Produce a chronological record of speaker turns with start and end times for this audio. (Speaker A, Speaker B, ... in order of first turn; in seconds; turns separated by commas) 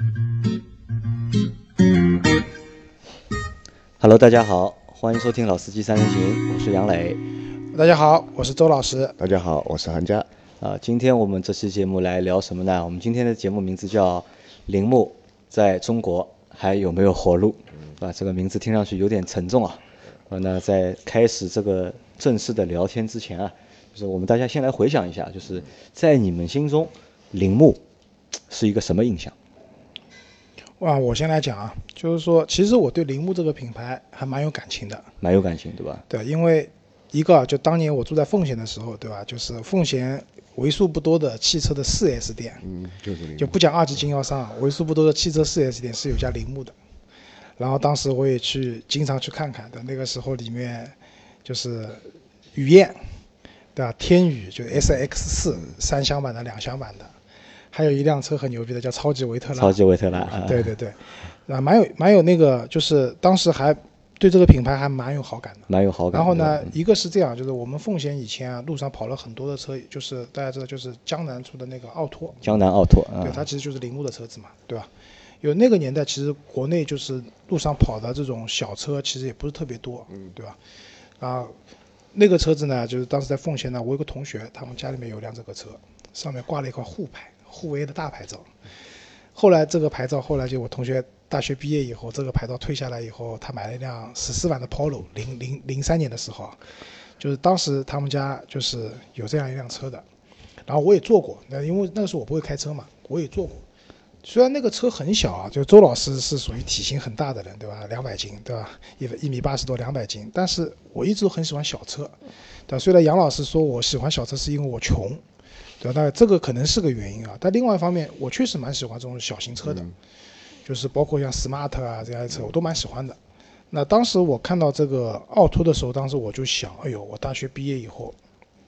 Speaker A: 4.0-7.2, Speaker B: 7.7-9.2, Speaker C: 9.2-10.2, Speaker A: 10.6-27.8, Speaker A: 28.5-29.3, Speaker B: 30.8-35.0, Speaker A: 35.2-36.0, Speaker B: 36.1-42.6, Speaker C: 42.6-43.5, Speaker B: 43.4-46.7, Speaker B: 47.6-53.0, Speaker B: 53.7-57.1, Speaker B: 57.7-59.8, Speaker A: 59.6-60.7, Speaker B: 60.4-72.5, Speaker A: 65.7-66.7, Speaker A: 72.4-73.5, Speaker B: 73.2-74.9, Speaker B: 75.4-80.6, Speaker B: 81.2-81.5, Speaker B: 82.1-88.5, Speaker B: 89.3-96.6, Speaker B: 97.2-100.0, Speaker B: 100.7-103.6, Speaker B: 104.2-112.2, Speaker B: 112.7-115.2, Speaker B: 115.8-119.9, Speaker C: 119.7-119.9, Speaker B: 120.7-123.2, Speaker B: 123.7-128.2